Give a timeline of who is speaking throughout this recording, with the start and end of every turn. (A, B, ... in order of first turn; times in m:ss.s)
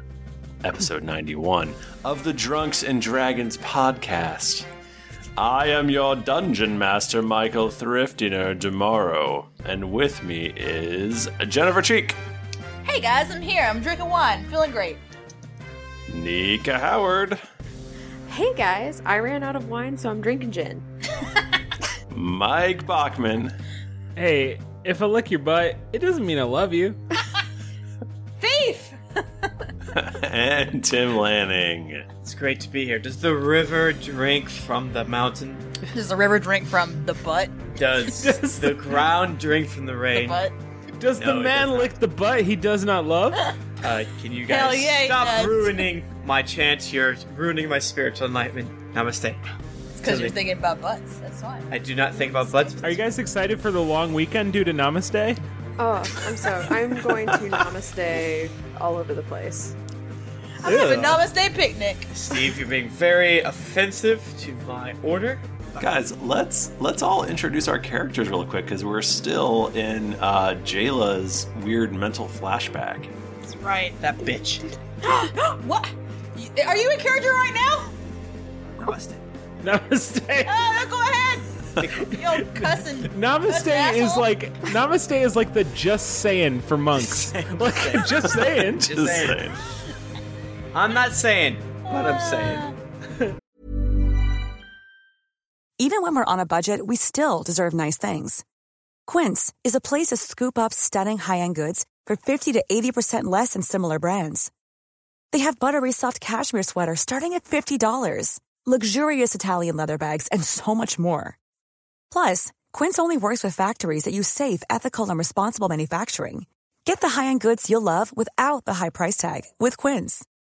0:00.6-0:04.7 A
0:05.4-0:12.2 A
0:12.8-0:15.0 B
0:16.1-0:17.4 A
0:18.3-0:20.8 C
0:22.1-0:23.6 A
0:24.2-0:27.0 D
0:28.4-0:29.5 B
0:29.9-0:32.1 A
0:32.2-0:35.7 E
0:35.9-0:37.6 B
0:37.7-0:40.4 E
0:38.2-0:38.8 D
0:40.1-0:40.6 B
0:41.0-0:43.5 D
0:41.2-0:41.9 E
0:43.8-0:49.4 E
0:44.5-0:45.8 B
0:50.0-0:51.7 B
0:50.0-0:50.4 E
0:51.7-0:53.0 E
0:52.8-0:55.4 D
0:55.8-0:59.8 C
0:57.3-0:57.6 A
1:00.6-1:02.1 B
1:00.6-1:01.1 D
1:00.6-1:01.2 E
1:02.1-1:05.9 E
1:05.8-1:13.1 A
1:13.5-1:14.0 B
1:14.0-1:14.7 E
1:15.0-1:17.9 B
1:18.8-1:19.2 E
1:19.6-1:20.6 D
1:20.4-1:21.5 B
1:21.8-1:22.1 E
1:22.0-1:24.3 B
1:22.2-1:28.9 D
1:27.0-1:29.4 E
1:28.4-1:29.6 A
1:30.7-1:32.7 E
1:31.9-1:32.7 B
1:35.8-1:38.4 F
1:39.1-1:44.5 F
1:45.3-1:51.4 F
1:52.1-2:00.2 F